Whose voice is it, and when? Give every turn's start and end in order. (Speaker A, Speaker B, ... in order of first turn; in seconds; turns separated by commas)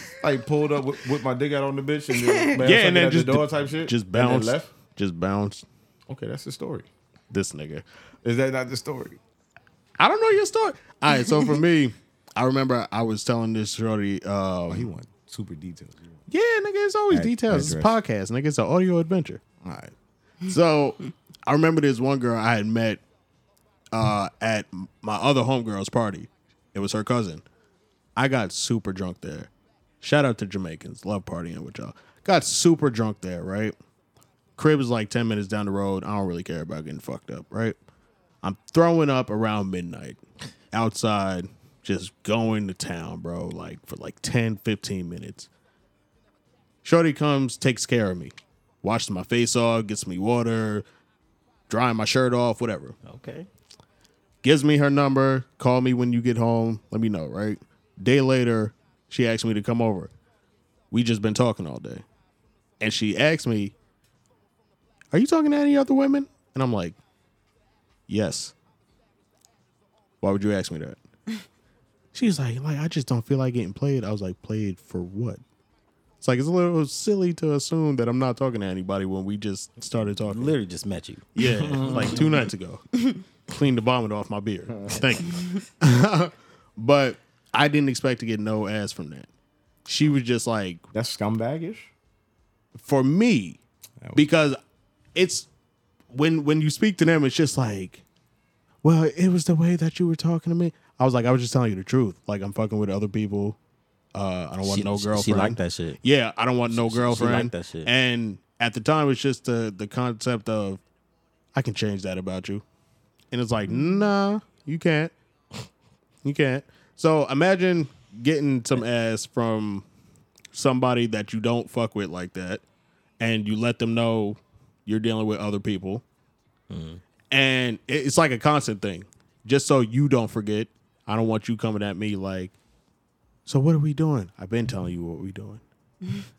Speaker A: 0.2-4.7, Speaker B: 2.6-5.7, Speaker A: 6.1-6.9, Speaker B: 7.3-7.8, Speaker A: 8.2-9.2, Speaker B: 10.0-14.9, Speaker A: 14.7-16.2, Speaker B: 16.3-19.4, Speaker A: 17.1-18.0, Speaker A: 19.6-19.9, Speaker B: 20.5-23.0, Speaker B: 23.9-27.4, Speaker B: 28.2-29.5, Speaker B: 30.0-33.8, Speaker B: 34.6-37.8, Speaker B: 38.4-40.2, Speaker B: 40.7-45.5, Speaker B: 46.8-50.9, Speaker B: 51.7-53.0, Speaker C: 53.0-53.5, Speaker B: 54.4-60.1, Speaker B: 60.9-62.0, Speaker B: 62.8-63.8, Speaker B: 65.1-67.0, Speaker B: 68.1-68.5, Speaker B: 70.2-71.0, Speaker B: 72.1-75.4, Speaker B: 76.2-80.6, Speaker C: 80.3-82.2, Speaker B: 81.3-89.3, Speaker A: 81.5-82.2, Speaker B: 89.9-90.8, Speaker A: 90.9-91.9, Speaker B: 92.8-93.6, Speaker B: 94.2-94.6, Speaker B: 95.2-95.5, Speaker B: 96.1-98.0, Speaker B: 98.8-103.6, Speaker B: 104.1-110.8, Speaker C: 104.6-106.0, Speaker C: 106.7-107.9, Speaker B: 111.5-112.6, Speaker B: 113.3-115.1, Speaker B: 116.2-119.8, Speaker B: 120.5-122.6, Speaker B: 123.2-126.0, Speaker C: 126.7-127.0, Speaker B: 127.3-132.5, Speaker B: 133.5-135.6